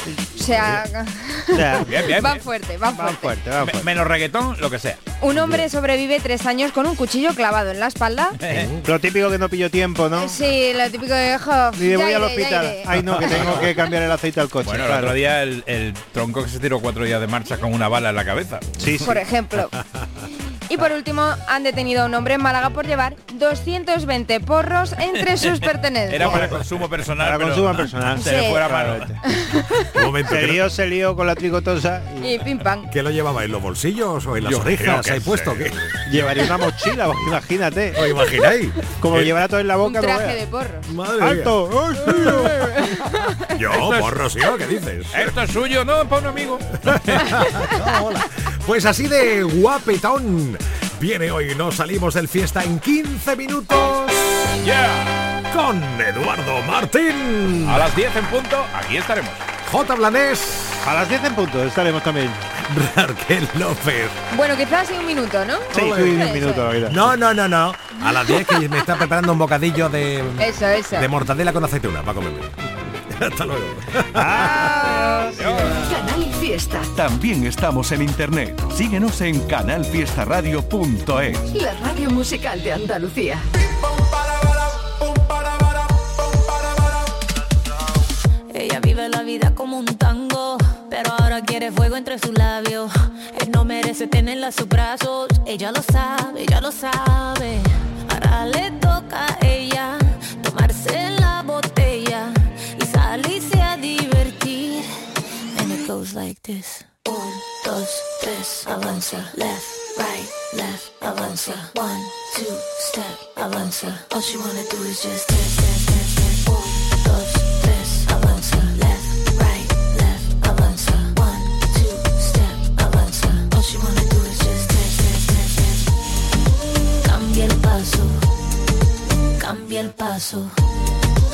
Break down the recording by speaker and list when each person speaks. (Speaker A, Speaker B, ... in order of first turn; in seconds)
Speaker A: 0.3-3.5, 5.2-8.3, 10.2-13.9, 19.1-19.7, 20.7-26.5, 28.2-28.7, 29.2-29.9, 32.2-32.9, 39.8-40.9, 42.1-43.5, 47.4-47.8, 64.3-66.7, 68.3-68.6, 70.4-71.1, 74.4-75.3
Speaker B: 0.3-0.8, 5.3-5.6, 8.5-8.8, 29.9-30.8, 32.9-37.4, 37.9-39.3, 40.9-42.6, 43.5-45.3, 46.9-54.6, 55.5-57.9, 59.6-60.9, 62.6-64.2, 65.7-74.7
Speaker C: 1.5-2.3, 2.9-3.9, 8.8-10.4, 11.8-15.2, 18.8-19.1, 26.2-29.2, 30.3-32.4, 36.0-38.0, 39.0-40.4, 41.2-42.5, 60.8-62.4, 65.7-67.1, 74.2-75.2
Speaker D: 1.8-2.4, 3.6-5.1, 8.3-8.7, 14.6-18.7, 25.1-29.1, 34.4-35.9, 43.7-44.2, 45.1-47.4, 54.6-55.1, 57.6-59.4, 75.3-75.9
Speaker E: 75.9-76.8, 81.6-83.4
Speaker F: 76.9-81.5
Speaker G: 88.5-104.8, 105.5-112.1